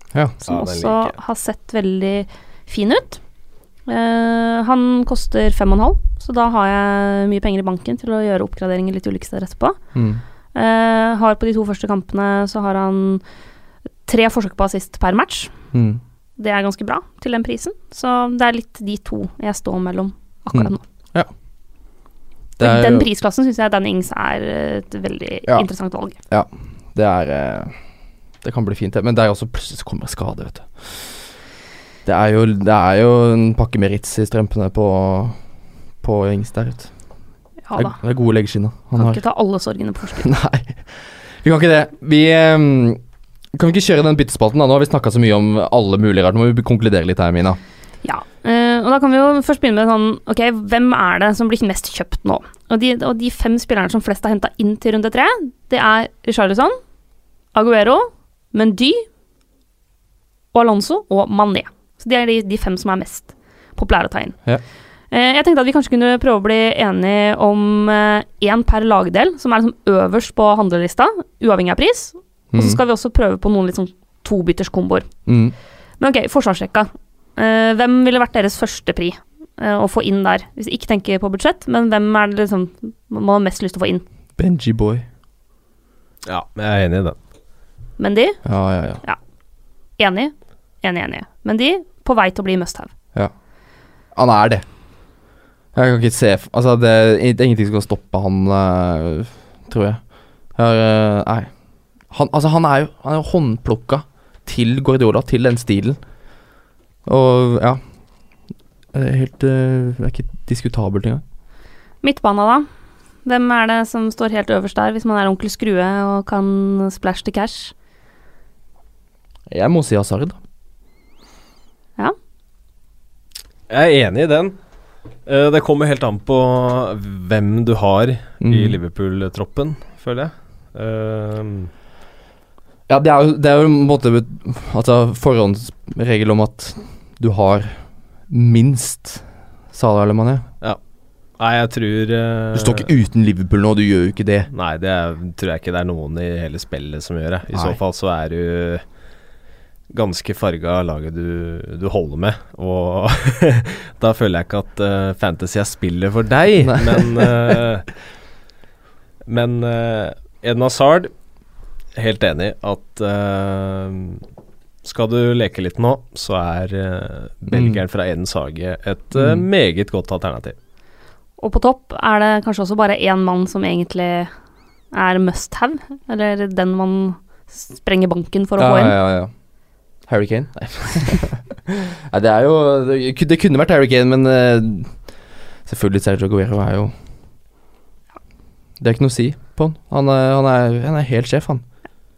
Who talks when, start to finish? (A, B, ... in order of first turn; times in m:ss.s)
0:00.5-0:01.2 A
0:00.5-0:03.2 B
0:03.9-0:09.8 B
0:09.9-0:10.2 C
0:10.6-0:13.2 B
0:14.1-0:15.5 B
0:15.7-0:16.0 C
0:16.4-0:20.8 B
0:20.5-0:21.3 C
0:22.6-0:23.1 C
0:22.6-0:26.2 B
0:26.3-0:27.7 C
0:28.4-0:31.2 C
0:32.0-0:35.4 C
0:36.0-0:36.9 C
0:37.7-0:38.0 B
0:37.7-0:39.2 C
0:39.0-0:40.3 B
0:40.2-0:43.0 C
0:43.5-0:47.6 C
0:48.0-0:56.8 B
0:57.5-0:59.1 B
1:00.5-1:04.4 B
1:05.1-1:15.1 B
1:12.5-1:12.8 C
1:15.3-1:15.6 C
1:16.0-1:24.0 B
1:24.4-1:25.1 C
1:26.2-1:27.2 A
1:28.0-1:28.4 B
1:28.4-1:29.0 C
1:30.0-1:32.9 B
1:34.1-1:34.6 C
1:35.7-1:40.0 C
1:40.5-1:41.5 C
1:42.1-1:46.0 C
1:47.1-1:47.8 C
1:48.9-1:51.2 C
1:52.0-1:52.7 B
1:53.2-1:57.7 B
1:59.5-2:00.4 C
2:03.7-2:04.6 A
2:05.3-2:11.7 A
2:08.4-2:08.8 C
2:12.9-2:20.5 C
2:21.4-2:22.9 A
2:22.5-2:24.5 C
2:24.5-2:28.8 A
2:27.5-2:27.8 C
2:29.9-2:37.9 A
2:36.6-2:37.3 C
2:39.3-2:41.1 A
2:42.0-2:44.2 A
2:44.8-2:50.6 A
2:47.5-2:47.8 C
2:49.1-2:49.5 C
2:51.4-2:54.3 B
2:54.9-2:58.9 B
2:58.6-2:59.3 C
3:00.1-3:05.0 C
3:05.7-3:06.9 C
3:08.8-3:11.6 C